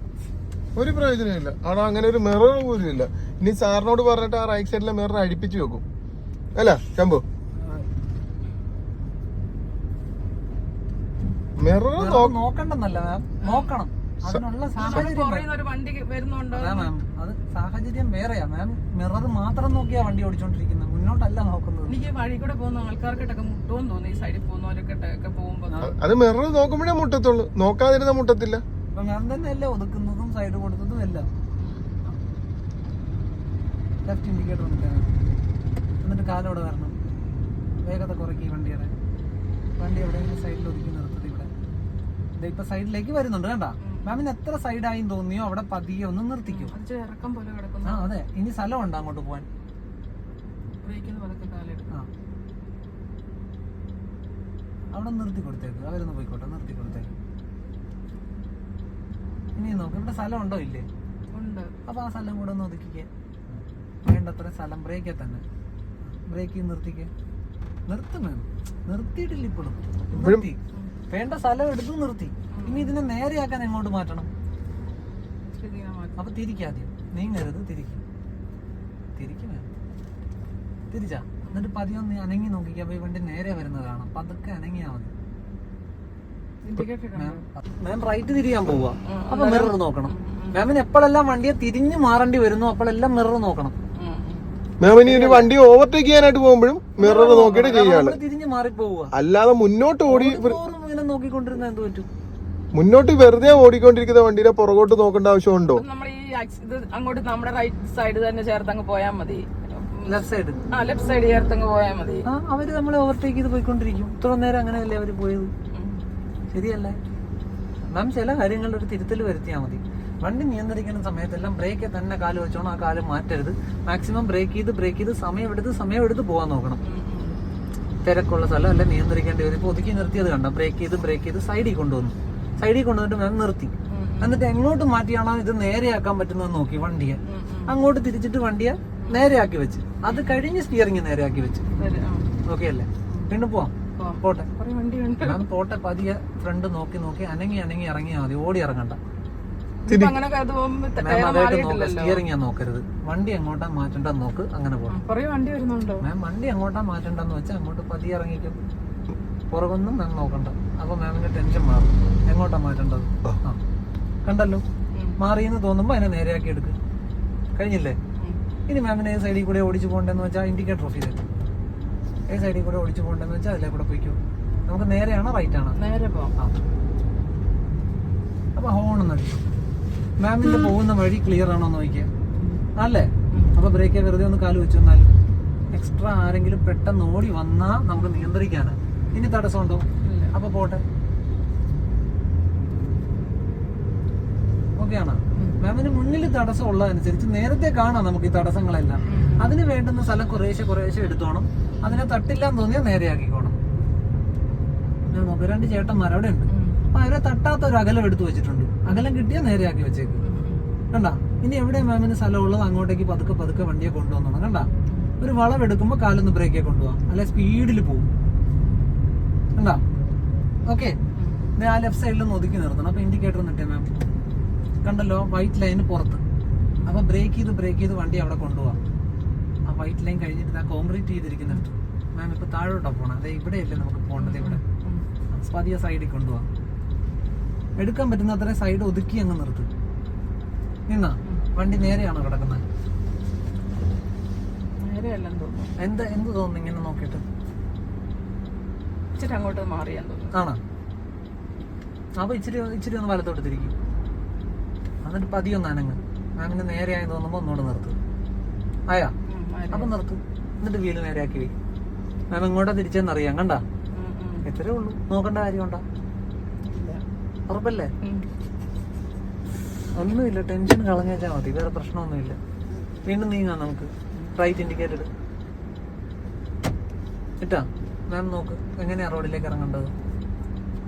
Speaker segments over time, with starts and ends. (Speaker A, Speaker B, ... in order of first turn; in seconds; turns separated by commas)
Speaker A: 0.8-5.8, Speaker A: 6.5-7.2, Speaker B: 7.6-7.8, Speaker A: 11.6-12.4, Speaker B: 11.9-15.5, Speaker C: 13.4-13.7, Speaker C: 14.8-16.9, Speaker B: 16.5-22.1, Speaker C: 21.9-25.7, Speaker B: 25.7-25.9, Speaker A: 25.8-28.6, Speaker B: 28.9-31.3, Speaker B: 34.0-35.2, Speaker B: 36.0-36.9, Speaker B: 37.8-38.9, Speaker B: 39.8-41.5, Speaker B: 42.4-46.7, Speaker C: 43.8-44.2, Speaker C: 46.5-48.1, Speaker B: 47.8-49.5, Speaker C: 50.8-51.9, Speaker B: 54.9-57.1, Speaker B: 59.5-60.9, Speaker C: 61.3-61.7, Speaker B: 61.9-65.4, Speaker B: 66.0-67.1, Speaker B: 67.9-70.6, Speaker A: 70.1-70.4, Speaker B: 71.1-74.3, Speaker C: 72.5-72.9, Speaker C: 75.5-76.2, Speaker B: 76.2-78.0, Speaker B: 79.2-79.7, Speaker B: 80.9-85.1, Speaker C: 86.6-87.4, Speaker B: 87.1-93.7, Speaker C: 89.0-90.7, Speaker C: 93.9-94.5, Speaker A: 94.8-98.2, Speaker B: 95.0-95.5, Speaker B: 97.0-99.1, Speaker C: 97.0-97.8, Speaker A: 99.1-100.6, Speaker B: 100.1-102.1, Speaker A: 102.7-105.8, Speaker C: 105.8-112.2, Speaker B: 110.0-110.6, Speaker B: 112.3-115.5, Speaker C: 115.7-116.0, Speaker B: 116.5-117.0, Speaker B: 117.9-126.8, Speaker C: 126.8-127.4, Speaker B: 128.0-141.7, Speaker C: 133.9-134.4, Speaker C: 137.2-137.7, Speaker C: 140.1-140.4, Speaker C: 141.7-142.3, Speaker B: 142.4-144.5, Speaker C: 143.9-145.4, Speaker B: 145.2-149.0, Speaker C: 149.9-152.2, Speaker A: 149.9-150.2, Speaker B: 151.0-155.0, Speaker C: 154.9-156.0, Speaker B: 156.0-158.6, Speaker B: 159.5-163.6, Speaker B: 164.2-164.6, Speaker B: 165.2-166.8, Speaker B: 167.6-168.0, Speaker B: 168.7-171.2, Speaker B: 172.3-175.8, Speaker C: 175.8-176.3, Speaker B: 178.6-179.4, Speaker B: 180.2-182.1, Speaker C: 182.3-182.6, Speaker B: 182.8-185.1, Speaker B: 185.7-190.8, Speaker C: 188.0-188.2, Speaker C: 190.0-190.3, Speaker B: 194.8-203.6, Speaker C: 195.3-195.6, Speaker C: 199.1-199.5, Speaker B: 205.1-210.2, Speaker C: 206.5-206.8, Speaker C: 210.2-210.6, Speaker B: 210.9-214.7, Speaker B: 215.2-218.1, Speaker B: 219.6-219.8, Speaker B: 220.7-221.0, Speaker C: 221.2-221.4, Speaker B: 221.6-223.9, Speaker B: 224.8-226.2, Speaker B: 226.8-228.8, Speaker B: 229.7-234.6, Speaker C: 234.2-235.0, Speaker B: 235.3-236.5, Speaker B: 237.8-239.7, Speaker B: 240.9-242.6, Speaker C: 244.8-245.7, Speaker B: 245.8-247.2, Speaker C: 249.1-250.3, Speaker B: 250.3-250.6, Speaker B: 252.2-253.7, Speaker B: 255.0-258.0, Speaker B: 258.9-259.1, Speaker C: 259.3-259.9, Speaker B: 259.7-261.5, Speaker B: 262.3-263.6, Speaker C: 263.9-264.4, Speaker B: 264.4-265.8, Speaker C: 266.6-267.0, Speaker B: 267.5-267.9, Speaker B: 269.9-272.4, Speaker B: 273.0-275.1, Speaker B: 277.4-279.9